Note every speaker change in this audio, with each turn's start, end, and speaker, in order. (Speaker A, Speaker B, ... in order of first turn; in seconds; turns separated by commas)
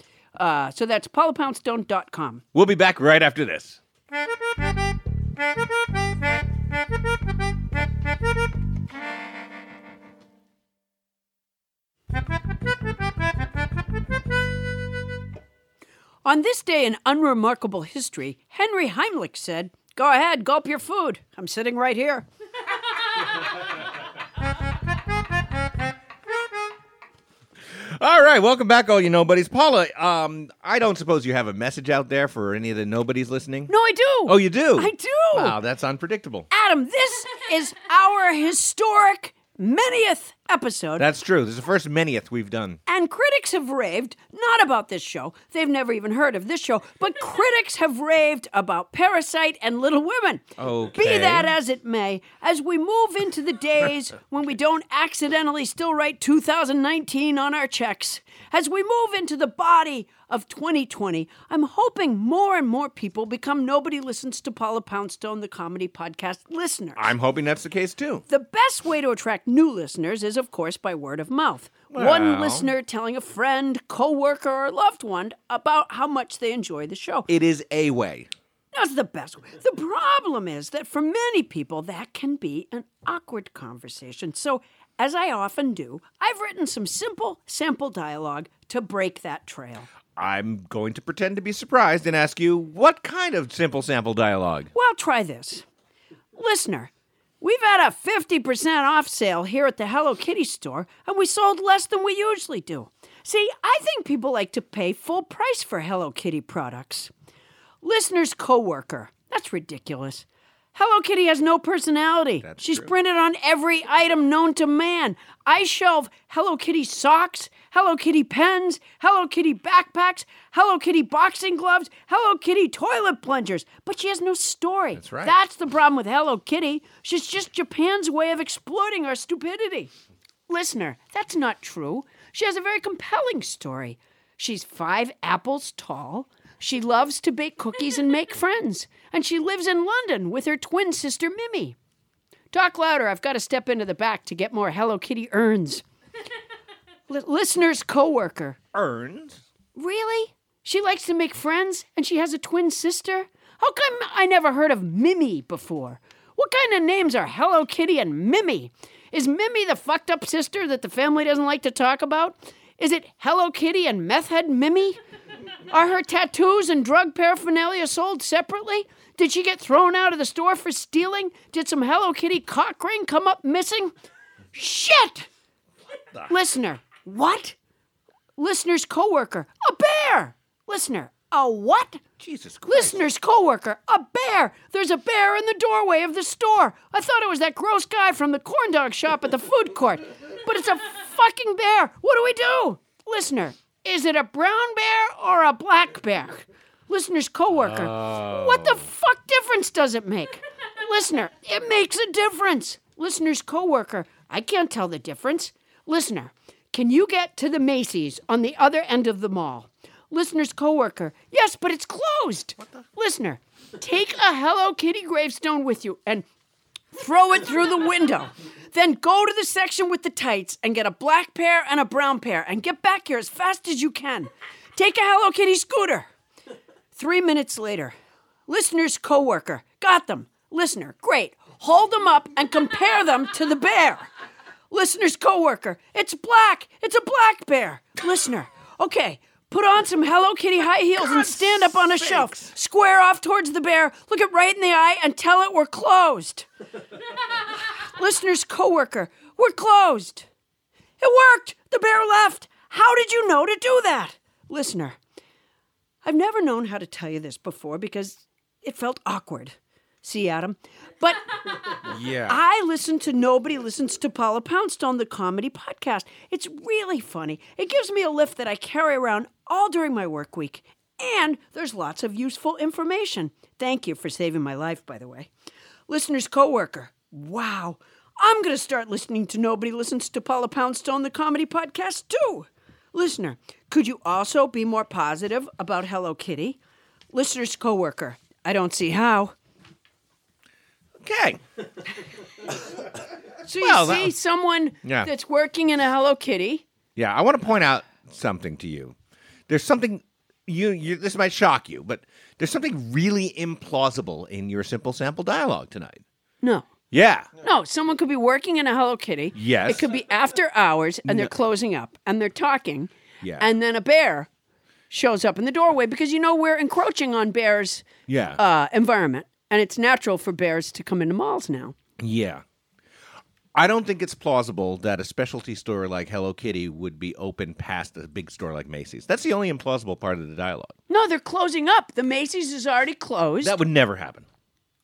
Speaker A: 0.3-2.4, Speaker B: 2.5-3.8, Speaker A: 16.2-22.3, Speaker B: 28.0-33.7, Speaker A: 33.7-35.6, Speaker B: 34.2-36.5, Speaker A: 36.5-41.0, Speaker B: 41.0-42.8, Speaker A: 42.9-67.1, Speaker B: 50.6-51.5, Speaker B: 67.0-68.2, Speaker A: 68.3-77.3, Speaker B: 71.9-72.7, Speaker B: 77.3-78.3, Speaker A: 78.7-89.9, Speaker B: 90.2-94.7, Speaker A: 94.7-95.6, Speaker A: 96.3-96.9, Speaker A: 97.4-107.1, Speaker A: 107.8-129.9, Speaker B: 112.4-112.9, Speaker B: 125.0-125.3, Speaker A: 130.5-141.7, Speaker A: 142.5-145.8, Speaker A: 147.1-148.6, Speaker B: 148.7-149.4, Speaker A: 149.8-165.0, Speaker A: 165.7-173.9, Speaker A: 174.5-175.3, Speaker A: 176.3-177.6, Speaker A: 178.4-182.0, Speaker B: 182.2-183.0, Speaker A: 182.7-216.2, Speaker B: 197.5-198.9, Speaker A: 216.9-226.1, Speaker A: 226.9-227.9, Speaker A: 228.5-234.1, Speaker A: 234.7-246.5, Speaker B: 241.0-242.5, Speaker A: 247.8-250.2, Speaker A: 251.0-255.0, Speaker A: 256.0-261.2, Speaker B: 261.9-262.4, Speaker A: 262.2-275.3, Speaker A: 275.9-286.6, Speaker A: 287.1-289.3, Speaker B: 291.0-291.4, Speaker A: 293.4-296.6, Speaker B: 293.6-294.1, Speaker B: 294.8-295.1, Speaker B: 296.9-298.9, Speaker B: 299.5-306.0, Speaker A: 306.4-306.7, Speaker B: 306.9-307.3, Speaker A: 307.4-314.3, Speaker B: 309.3-309.8, Speaker A: 314.9-317.9, Speaker B: 318.1-318.4, Speaker A: 318.4-321.7, Speaker B: 322.0-322.4, Speaker B: 323.5-330.7, Speaker A: 330.9-333.6, Speaker B: 333.4-334.2